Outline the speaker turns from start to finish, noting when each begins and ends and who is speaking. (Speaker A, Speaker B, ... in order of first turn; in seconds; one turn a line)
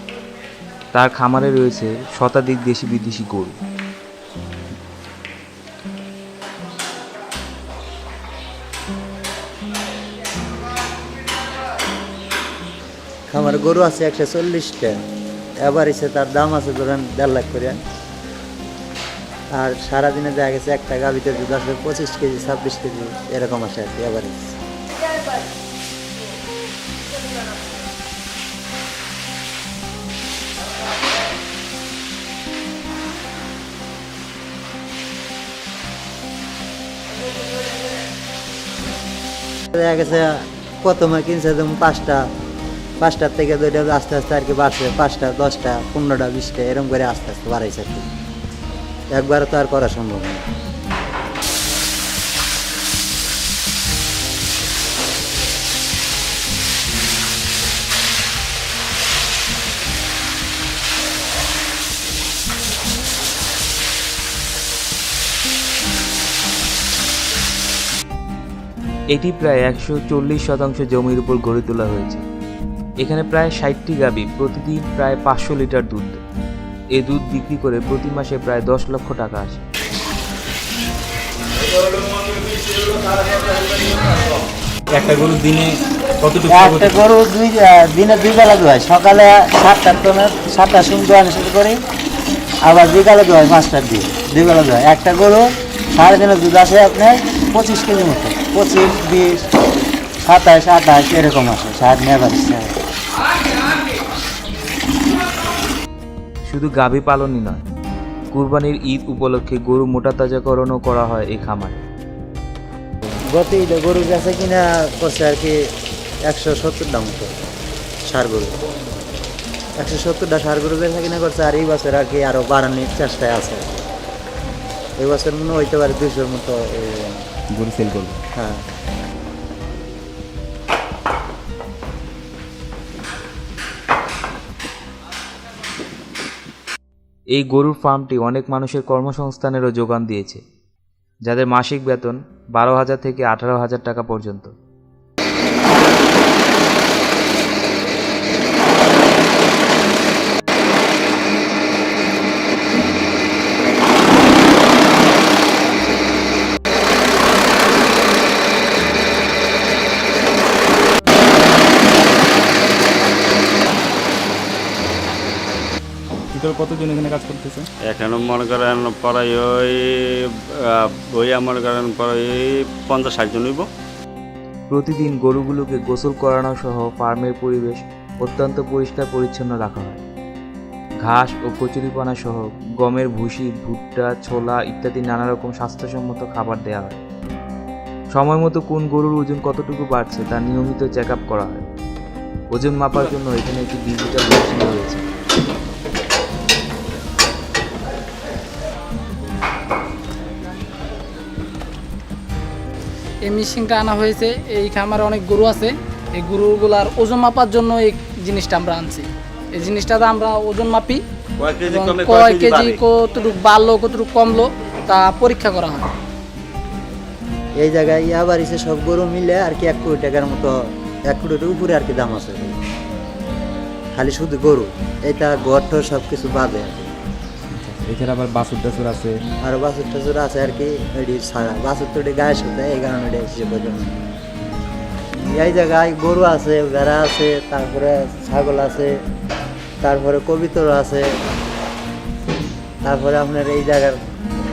Speaker A: 0.9-3.6
Speaker B: 13.3-15.0
Speaker B: 15.6-17.8
Speaker B: 19.5-24.6
Speaker B: 39.7-42.3
Speaker B: 43.0-48.1
Speaker B: 49.1-50.5
Speaker A: 69.1-72.2
Speaker A: 73.0-76.2
Speaker A: 76.9-79.6
Speaker C: 81.7-84.3
Speaker D: 84.9-86.9
Speaker B: 86.5-91.8
Speaker B: 92.6-99.5
Speaker B: 100.3-102.8
Speaker A: 106.5-107.6
Speaker A: 108.3-111.8
Speaker B: 113.3-115.7
Speaker B: 116.3-117.3
Speaker B: 118.1-118.5
Speaker B: 119.8-123.7
Speaker B: 125.0-127.2
Speaker D: 127.5-128.2
Speaker B: 128.4-128.7
Speaker A: 137.3-140.4
Speaker A: 141.3-144.5
Speaker D: 166.3-167.7
Speaker C: 167.9-169.8
Speaker C: 170.8-173.7
Speaker A: 174.7-180.0
Speaker A: 181.0-187.0
Speaker A: 188.1-191.7
Speaker A: 192.5-195.0
Speaker E: 203.3-211.0
Speaker C: 211.4-212.8
Speaker E: 211.7-215.9
Speaker B: 217.6-220.6
Speaker B: 221.1-222.6
Speaker B: 223.9-226.9
Speaker D: 227.5-229.2
Speaker B: 229.4-234.0
Speaker B: 235.2-239.0
Speaker B: 239.8-241.2
Speaker B: 242.8-244.0